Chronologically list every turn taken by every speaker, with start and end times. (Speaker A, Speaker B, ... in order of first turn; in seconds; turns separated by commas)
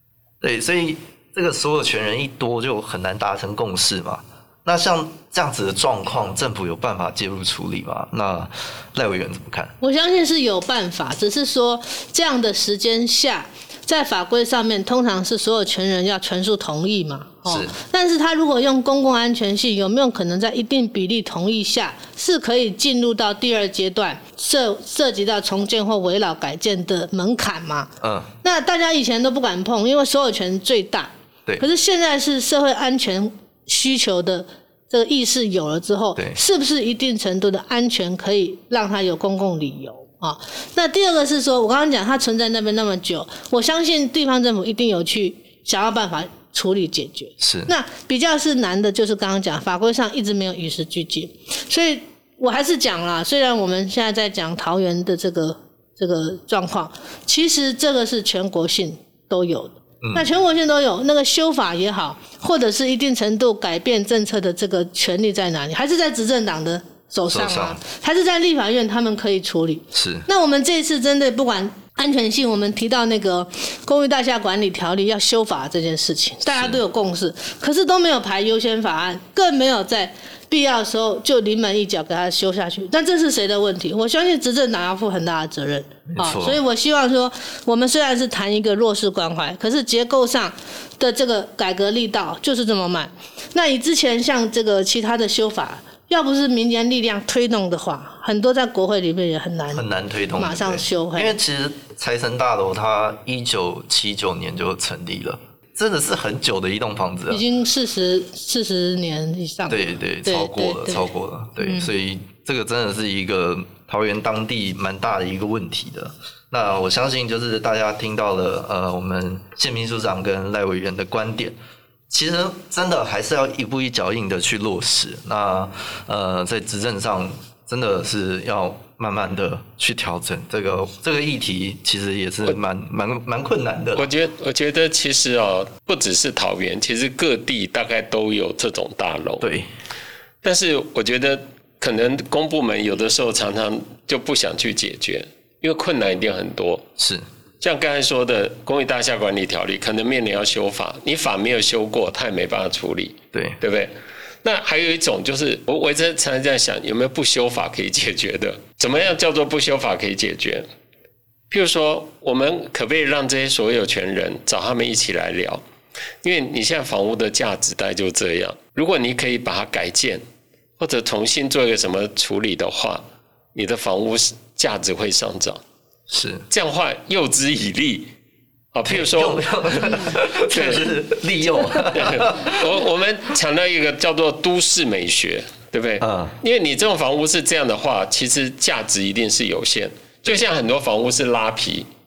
Speaker A: 0.4-9.7, Speaker B: 9.8-27.9, Speaker A: 17.5-17.7, Speaker A: 28.0-28.3, Speaker B: 28.4-99.8, Speaker A: 47.4-47.7, Speaker A: 67.3-67.8, Speaker A: 69.9-70.2, Speaker A: 76.5-76.8, Speaker A: 86.1-86.6, Speaker A: 99.7-107.4, Speaker B: 100.3-101.3, Speaker B: 107.3-111.1, Speaker A: 109.7-121.5, Speaker B: 111.6-111.9, Speaker A: 122.1-134.1, Speaker C: 133.9-139.5, Speaker A: 139.4-139.7, Speaker C: 140.4-146.8, Speaker A: 147.0-147.2, Speaker C: 147.6-153.9, Speaker A: 153.3-153.6, Speaker C: 154.4-160.7, Speaker C: 161.5-165.6, Speaker C: 166.2-170.2, Speaker C: 170.8-175.6, Speaker A: 176.1-176.4, Speaker C: 176.5-178.1, Speaker C: 178.7-180.9, Speaker A: 178.8-182.7, Speaker C: 181.9-191.9, Speaker A: 186.0-186.4